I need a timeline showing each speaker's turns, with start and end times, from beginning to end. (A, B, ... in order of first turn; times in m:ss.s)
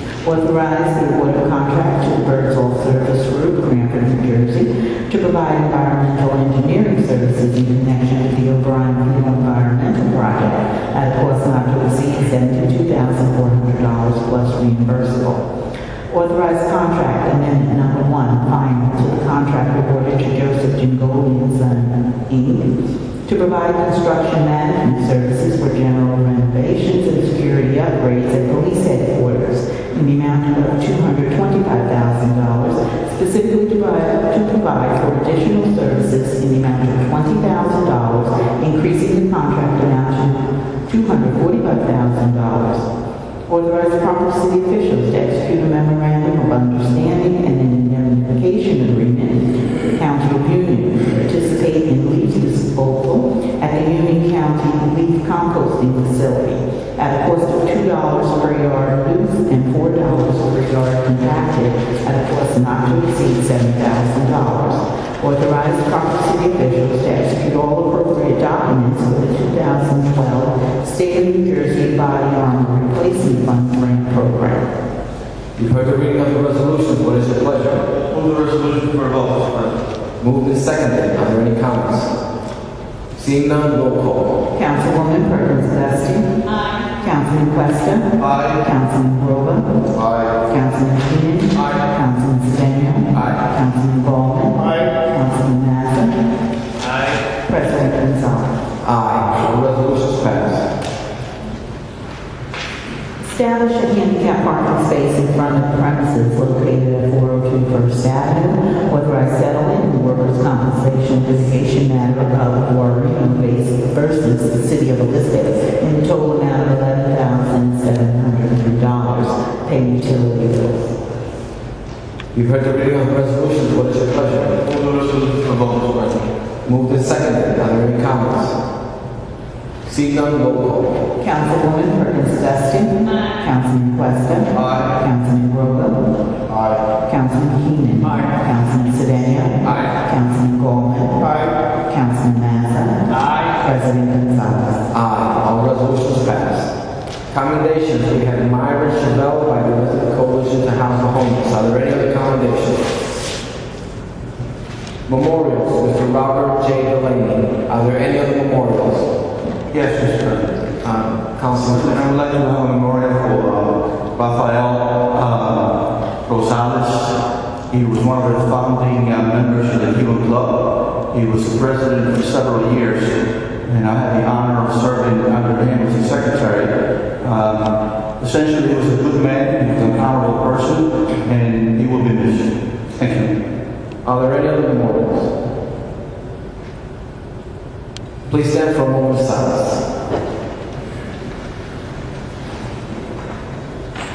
0:00.2-0:15.4 A
0:16.1-0:42.9 A
0:43.5-1:14.6 A
1:15.6-1:17.9 B
1:18.1-1:19.8 C
1:20.2-1:22.1 B
1:23.2-1:24.4 B
1:24.5-1:29.7 A
1:28.2-1:28.6 C
1:29.9-1:30.4 B
1:30.4-1:36.1 A
1:37.4-1:38.5 A
1:38.8-1:40.7 B
1:43.2-2:00.8 A
2:02.3-2:04.6 B
2:04.6-2:06.2 C
2:06.6-2:08.6 B
2:09.8-2:11.0 B
2:11.2-2:16.0 A
2:14.5-2:14.9 C
2:17.0-2:21.3 A
2:21.9-2:24.8 A
2:24.9-2:26.7 B
2:27.3-2:32.8 B
2:35.1-2:39.1 B
2:39.7-2:40.6 C
2:40.8-2:42.0 B
2:41.6-3:03.4 C
3:04.0-3:05.3 B
3:08.3-3:09.8 B